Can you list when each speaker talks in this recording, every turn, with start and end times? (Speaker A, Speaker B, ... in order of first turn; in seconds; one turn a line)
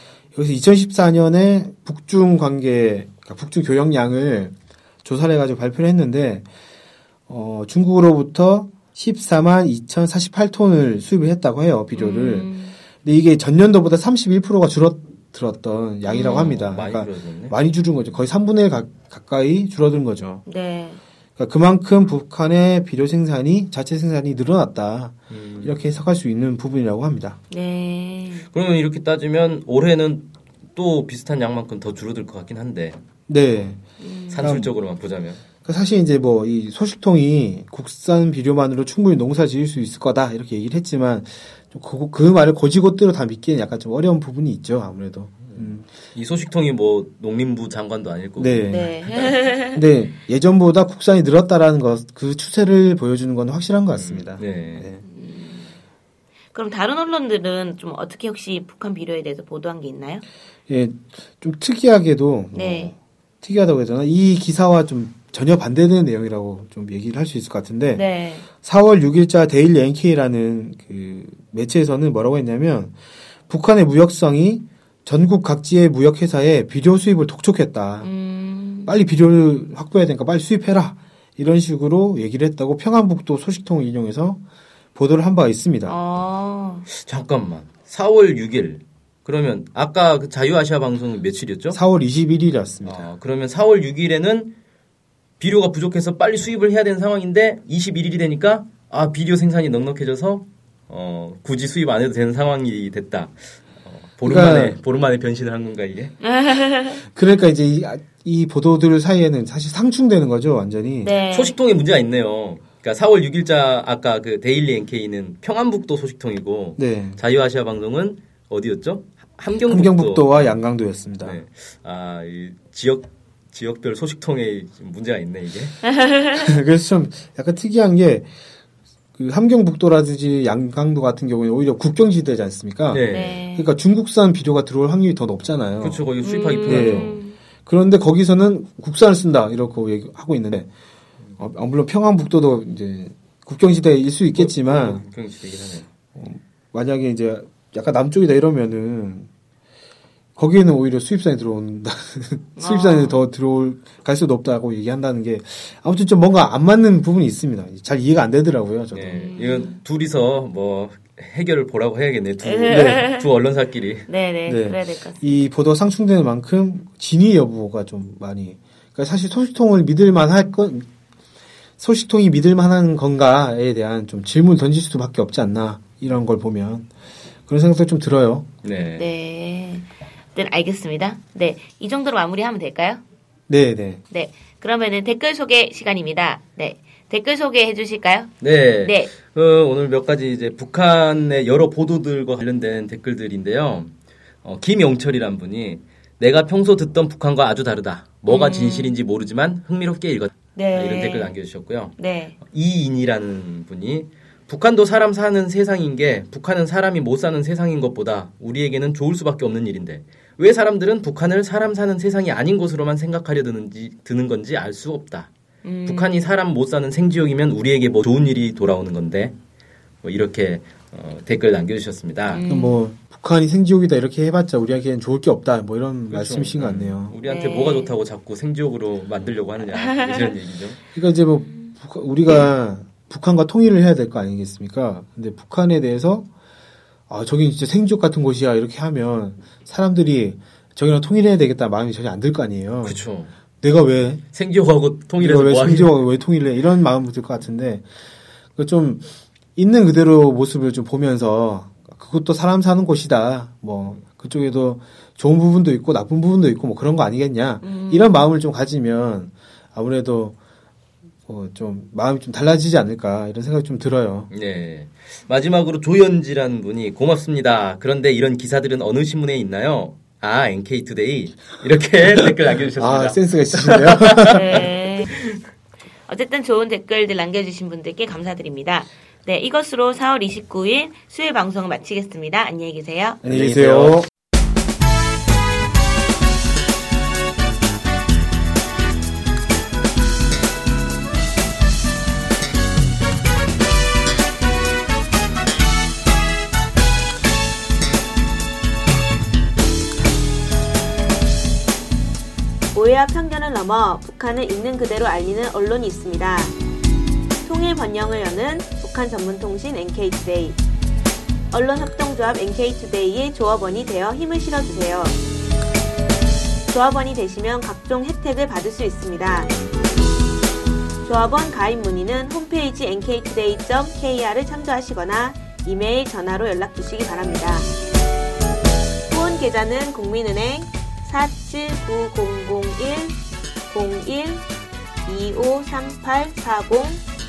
Speaker A: 0.3-6.5
Speaker A: 7.3-12.5
Speaker B: 11.9-12.8
Speaker A: 13.0-20.4
Speaker B: 16.1-16.5
Speaker C: 16.1-17.6
Speaker B: 20.5-21.0
Speaker A: 21.4-27.4
Speaker C: 25.3-25.8
Speaker B: 27.5-28.5
Speaker C: 28.5-33.0
Speaker A: 33.3-33.9
Speaker B: 34.0-34.5
Speaker C: 34.3-35.4
Speaker A: 34.4-34.7
Speaker A: 35.6-45.9
Speaker C: 45.5-49.4
Speaker A: 48.4-49.0
Speaker B: 48.7-49.8
Speaker A: 49.5-55.0
Speaker C: 53.9-54.9
Speaker B: 55.0-55.8
Speaker B: 56.5-60.2
Speaker A: 60.7-68.0
Speaker B: 62.5-62.9
Speaker B: 67.9-68.5
Speaker A: 68.6-73.0
Speaker A: 73.5-78.1
Speaker B: 78.0-78.9
Speaker A: 78.9-84.4
Speaker A: 85.0-86.0
Speaker B: 85.8-86.9
Speaker C: 86.9-91.8
Speaker A: 91.7-93.1
Speaker C: 92.8-94.5
Speaker C: 95.4-106.2
Speaker A: 104.2-104.8
Speaker B: 106.2-107.0
Speaker A: 107.0-111.1
Speaker B: 111.0-111.6
Speaker C: 111.3-120.5
Speaker A: 116.8-117.2
Speaker A: 119.6-121.4
Speaker C: 121.2-125.8
Speaker B: 126.0-126.2
Speaker A: 126.3-128.3
Speaker A: 129.2-136.0
Speaker C: 132.9-133.4
Speaker B: 133.1-133.7
Speaker C: 135.8-137.2
Speaker B: 136.2-137.4
Speaker A: 136.6-140.7
Speaker A: 141.4-145.0
Speaker C: 144.3-145.9
Speaker A: 146.1-149.3
Speaker A: 150.4-159.3
Speaker B: 152.6-153.2
Speaker C: 158.9-164.1
Speaker B: 159.1-159.8
Speaker B: 162.4-163.3
Speaker A: 162.7-163.1
Speaker B: 164.1-165.3
Speaker A: 164.5-170.9
Speaker A: 171.8-176.9
Speaker A: 177.5-178.5
Speaker C: 178.6-179.1
Speaker B: 179.0-183.0
Speaker A: 183.5-184.0
Speaker B: 184.1-189.1
Speaker C: 188.4-193.9
Speaker C: 194.4-215.3
Speaker B: 198.3-199.0
Speaker B: 200.5-201.3
Speaker B: 202.0-202.3
Speaker B: 215.6-216.2
Speaker C: 215.9-219.4
Speaker C: 220.0-222.4
Speaker B: 222.3-222.8
Speaker A: 222.5-227.2
Speaker C: 226.1-230.8
Speaker B: 227.2-227.9
Speaker B: 229.7-230.3
Speaker A: 230.9-236.3
Speaker B: 231.5-231.7
Speaker A: 237.1-243.0
Speaker C: 242.8-243.3
Speaker A: 243.6-244.2
Speaker C: 244.3-246.0
Speaker A: 245.2-247.9
Speaker A: 248.6-260.4
Speaker B: 257.6-258.3
Speaker A: 261.3-264.3
Speaker C: 264.3-274.6
Speaker A: 272.8-274.7
Speaker B: 274.3-275.1
Speaker B: 276.1-283.2
Speaker A: 283.2-284.1
Speaker C: 283.2-284.1
Speaker B: 302.7-306.5
Speaker B: 307.4-310.6
Speaker B: 311.5-315.2
Speaker B: 316.7-319.5
Speaker B: 321.0-327.7
Speaker B: 329.1-333.2
Speaker B: 333.7-334.4
Speaker B: 335.1-337.0